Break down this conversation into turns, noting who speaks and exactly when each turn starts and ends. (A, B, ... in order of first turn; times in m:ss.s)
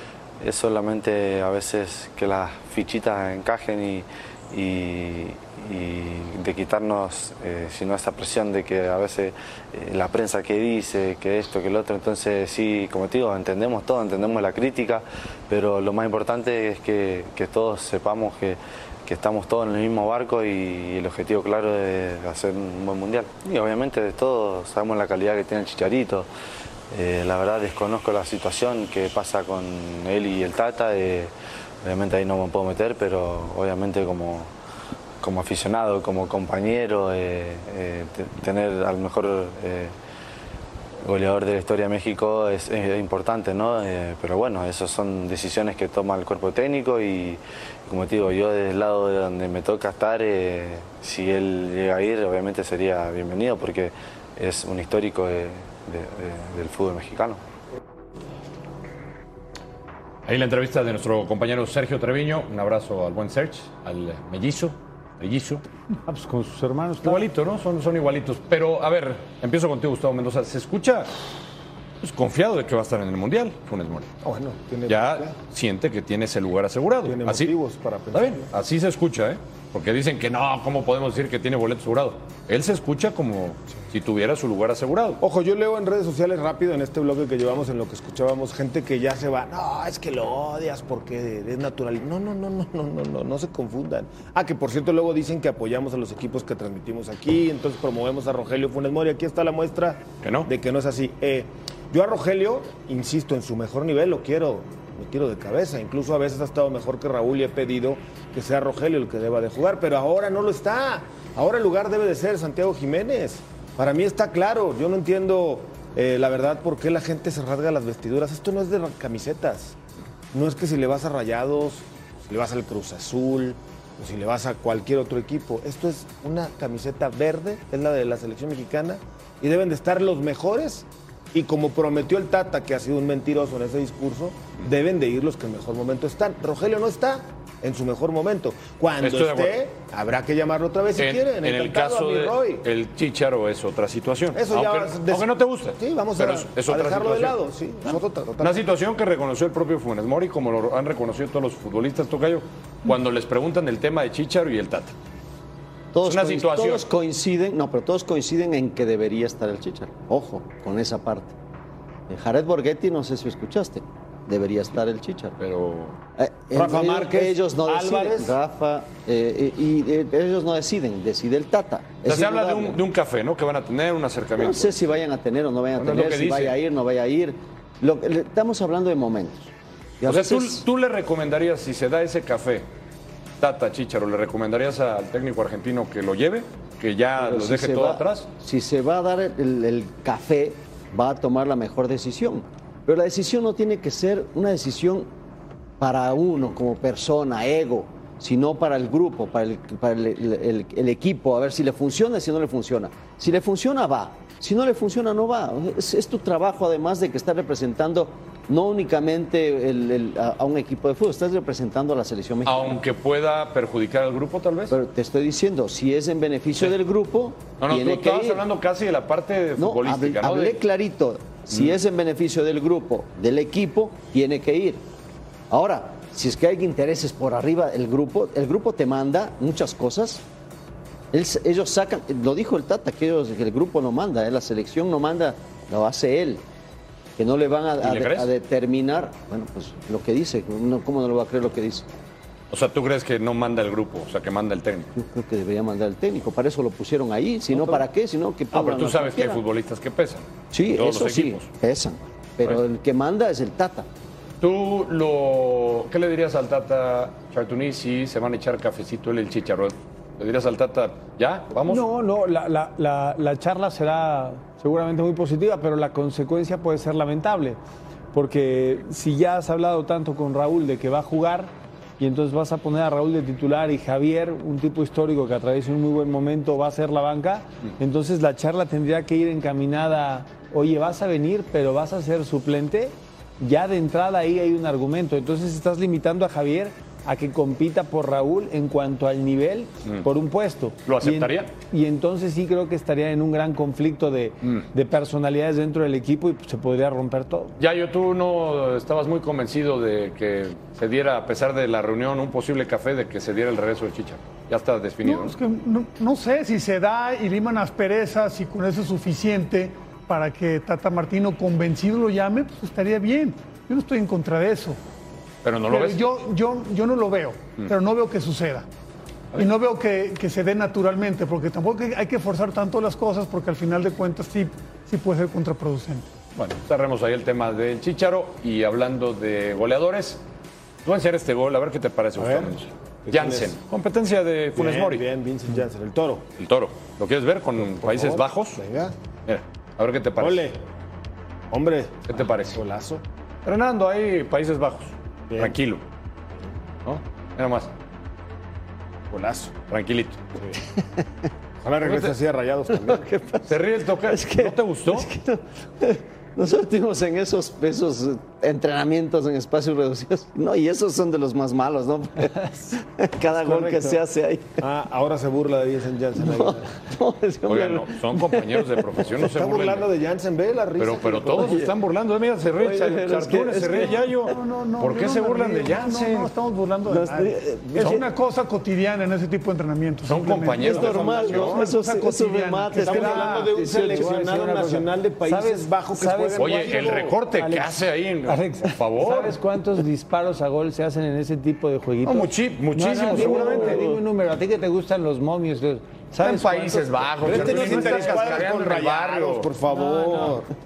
0:00.4-0:26.3 A
0:26.9-0:31.3 A
0:31.8-0:34.5 A
0:35.2-0:39.9 A
0:41.0-0:57.4 A
1:00.2-1:05.6 B
1:06.1-1:07.3 C
1:07.0-1:11.1 B
1:12.0-1:14.1 B
1:14.2-1:15.3 D
1:14.9-1:17.6 B
1:17.0-1:18.5 D
1:18.1-1:25.2 B
1:25.2-1:59.8 D
1:40.2-1:40.5 B
2:00.3-2:22.6 D
2:19.0-2:19.6 B
2:21.0-2:34.9 B
2:24.3-2:28.6 D
2:35.9-2:41.3 E
2:36.0-2:36.9 B
2:42.1-2:45.4 E
2:45.4-2:46.0 B
2:46.2-2:52.8 E
2:46.5-2:48.4 D
2:52.0-2:54.8 B
2:54.4-3:00.6 E
2:55.8-2:56.6 B
3:00.0-3:02.7 B
3:03.4-3:08.3 B
3:07.2-3:15.1 E
3:15.8-3:32.8 E
3:32.4-3:34.7 B
3:34.7-3:38.4 E
3:37.6-3:40.6 B
3:39.6-3:44.8 E
3:41.5-3:41.8 B
3:45.5-3:50.2 E
3:51.1-3:56.4 E
3:57.2-4:01.9 E
3:57.8-3:58.3 B
4:02.5-4:04.9 B
4:05.0-4:09.4 E
4:07.5-4:07.8 B
4:08.5-4:11.5 B
4:10.5-4:13.9 E
4:14.4-4:21.9 B
4:21.6-4:27.6 C
4:28.1-4:57.5 C
4:50.9-4:51.5 B
4:57.6-5:05.4 B
5:05.0-5:14.8 F
5:15.4-5:16.0 B
5:15.7-5:18.7 F
5:19.3-5:26.1 F
5:26.4-5:30.2 B
5:30.8-5:35.1 B
5:32.2-5:32.6 D
5:33.1-5:33.6 D
5:34.6-5:36.3 D
5:36.4-5:38.6 B
5:37.6-5:38.9 D
5:39.3-5:40.5 B
5:40.2-5:40.6 D
5:41.5-5:43.0 D
5:42.1-5:42.6 B
5:43.4-5:45.8 B
5:45.3-5:45.6 D
5:46.8-5:47.7 B
5:49.1-5:49.5 D
5:49.7-5:50.2 B
5:51.6-5:53.1 D
5:51.8-5:52.1 B
5:52.7-6:04.6 E
5:53.4-5:55.1 B
6:03.4-6:04.0 C
6:04.6-6:06.7 D
6:06.2-6:09.0 E
6:07.5-6:09.9 B
6:09.2-6:11.6 D
6:10.8-6:16.3 B
6:11.3-6:11.7 E
6:12.6-6:14.3 E
6:14.3-6:23.5 F
6:16.9-6:18.1 E
6:20.1-6:21.6 B
6:20.6-6:23.2 E
6:22.8-6:38.5 C
6:22.8-6:27.2 D
6:26.4-6:29.4 B
6:32.0-6:33.8 B
6:33.2-6:34.0 E
6:36.2-6:39.5 B
6:37.2-6:40.5 D
6:39.8-6:40.3 C